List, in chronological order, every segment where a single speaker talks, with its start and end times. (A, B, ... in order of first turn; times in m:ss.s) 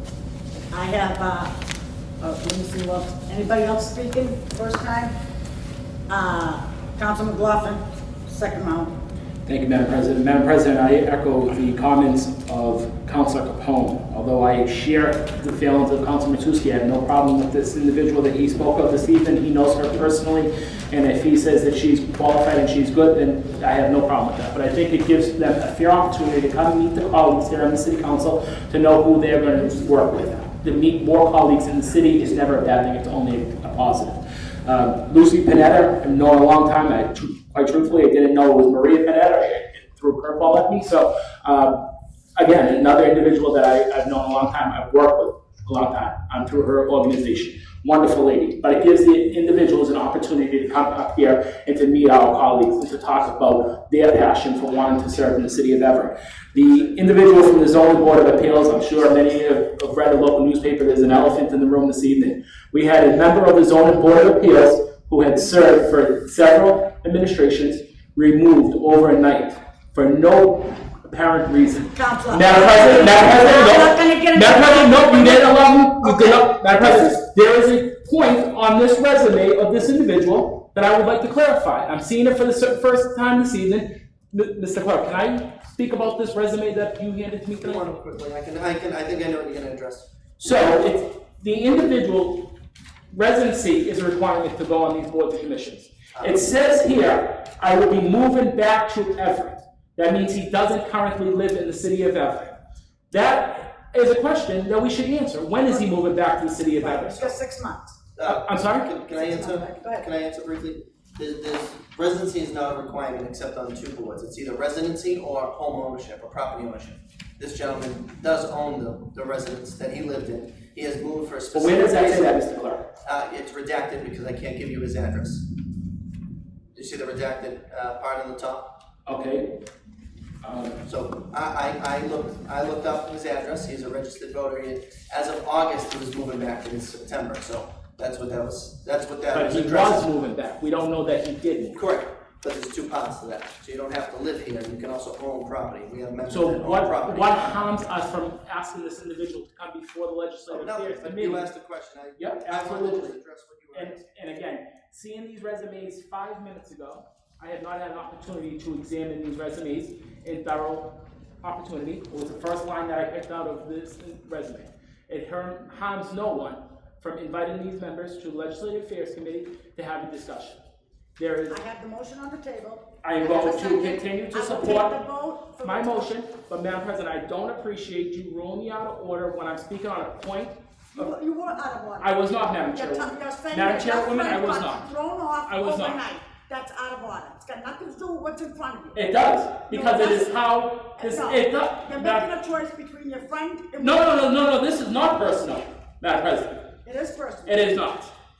0:00.7-0:01.5 A
0:02.2-0:05.1 A
0:06.1-0:08.9 A
0:09.4-0:41.8 B
0:42.4-1:27.8 B
1:11.9-1:17.2 A
1:27.6-1:30.1 C
1:30.4-1:32.6 B
1:33.1-1:42.6 B
1:36.2-1:36.4 C
1:43.1-1:47.3 B
1:45.7-1:46.0 A
1:46.8-1:48.0 A
1:48.2-2:02.4 C
1:48.2-1:48.9 B
1:49.1-1:50.0 A
2:01.5-2:02.9 B
2:03.0-2:05.5 C
2:06.7-2:08.7 C
2:09.0-2:09.5 B
2:10.4-2:10.8 B
2:10.8-2:20.1 C
2:19.3-2:21.8 B
2:21.7-2:27.6 C
2:26.3-2:31.5 B
2:30.5-2:34.0 C
2:32.2-2:33.2 B
2:33.7-2:50.6 B
2:51.2-2:51.6 B
2:51.5-2:56.1 A
2:53.0-2:54.9 B
2:55.6-3:01.1 B
3:01.0-3:02.1 A
3:02.0-3:04.9 B
3:02.7-3:09.0 A
3:05.4-3:06.0 B
3:08.9-3:12.3 B
3:09.7-3:10.4 A
3:11.0-3:14.2 A
3:13.8-3:16.7 B
3:16.8-3:17.7 A
3:17.4-3:18.1 B